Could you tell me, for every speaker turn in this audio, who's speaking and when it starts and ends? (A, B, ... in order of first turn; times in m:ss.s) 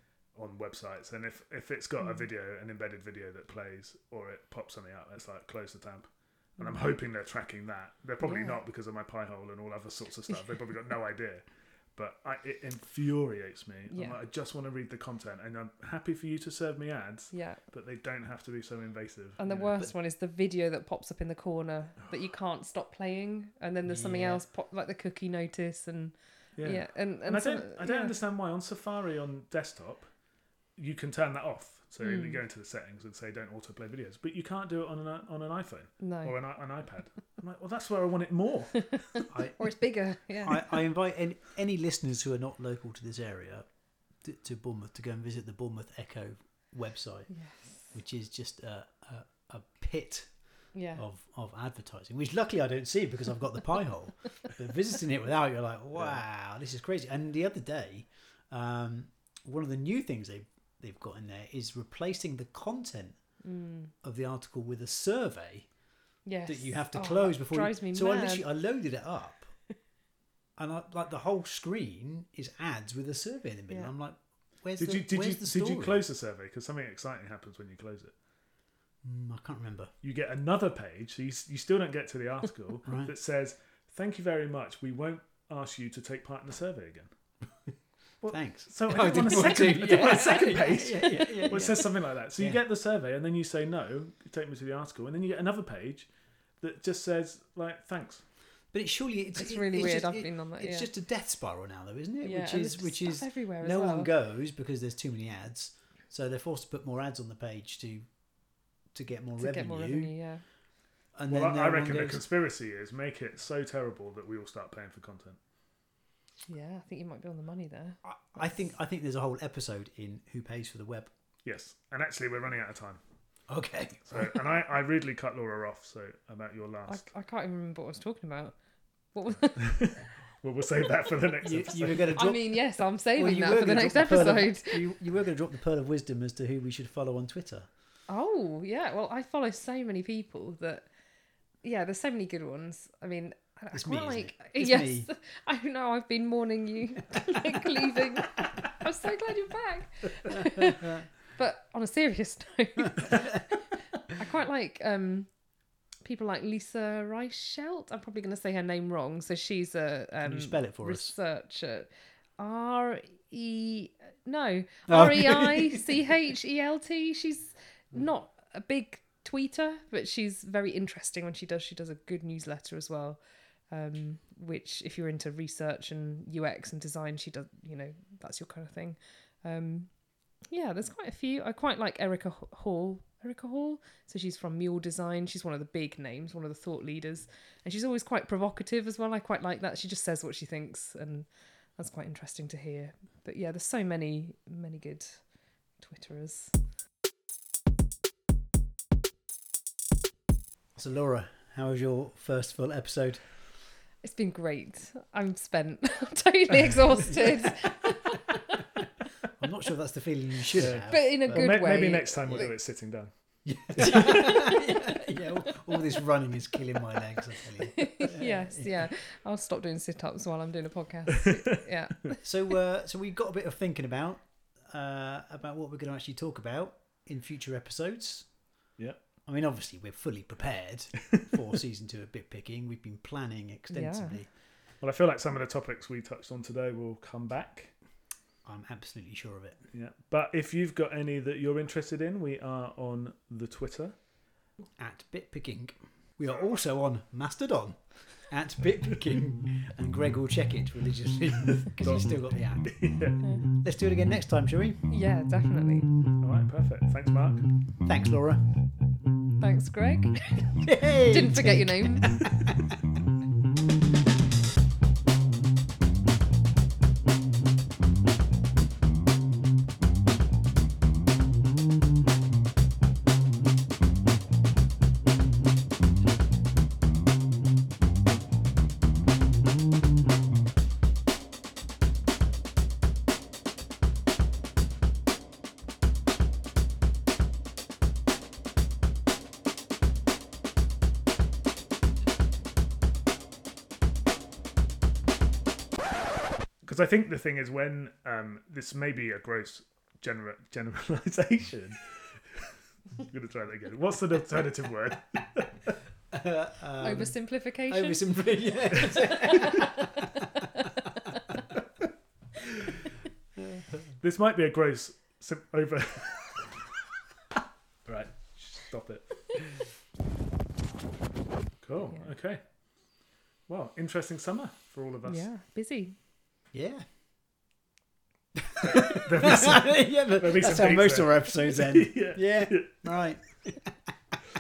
0:00.3-0:19.9 A
0:08.2-0:08.6 B
0:13.9-0:14.2 B
0:17.3-0:17.6 B
0:19.4-0:28.2 B
0:23.8-0:24.5 C
0:26.6-0:30.2 A
0:30.8-0:39.2 A
0:32.0-0:32.4 B
0:36.0-0:36.4 B
0:38.9-0:40.8 B
0:39.3-1:03.5 C
0:47.3-0:47.9 B
0:50.7-0:51.0 B
0:56.0-0:56.2 A
1:03.4-1:03.9 B
1:04.0-1:05.8 C
1:06.2-1:08.5 B
1:06.5-1:09.6 C
1:10.6-1:16.0 C
1:14.8-1:18.1 A
1:19.0-1:19.9 C
1:20.0-1:27.1 A
1:22.8-1:23.1 C
1:28.2-1:38.3 A
1:28.3-1:32.6 C
1:31.5-1:31.8 B
1:38.7-1:50.4 C
1:39.4-1:40.9 B
1:42.2-1:44.1 B
1:49.4-1:50.5 B
1:51.1-1:52.2 C
1:51.3-1:55.4 A
1:56.5-1:58.7 B
1:58.0-2:01.1 C
2:01.4-2:03.0 A
2:03.5-2:04.4 C
2:04.0-2:07.1 A
2:06.9-2:10.1 B
2:09.4-2:12.2 A
2:11.4-2:17.7 C
2:12.1-2:15.0 B
2:18.1-2:20.9 B
2:21.6-3:16.6 B
2:23.7-2:25.1 C
2:27.8-2:28.5 C
2:40.2-2:41.2 C
2:44.9-2:45.9 C
3:20.8-3:23.3 C
3:24.0-3:28.6 B
3:27.1-3:27.7 C
3:29.4-3:31.6 C
3:30.6-3:34.1 A
3:30.6-3:32.5 B
3:33.4-3:38.9 C
3:33.9-3:36.0 B
3:37.8-3:42.6 B
3:42.2-3:48.4 C
3:48.8-3:49.0 A
3:49.2-3:54.3 C
3:53.7-3:54.2 B
3:54.8-3:57.8 A
3:58.4-3:59.6 C
3:59.7-4:04.0 A
4:04.8-4:14.9 C
4:06.2-4:06.6 A
4:11.8-4:13.3 A
4:14.9-4:15.9 B
4:16.2-4:17.5 A
4:17.8-4:18.6 C
4:19.4-4:22.3 B
4:20.6-4:22.6 C
4:56.6-5:05.8 A
5:06.1-5:09.7 C
5:06.8-5:09.7 B
5:13.4-5:13.9 C
5:14.0-5:16.5 A
5:17.8-5:19.6 A
5:21.6-5:25.3 A
5:25.0-5:26.0 B
5:26.5-5:26.9 C
5:28.6-5:32.8 A
5:28.9-5:33.8 C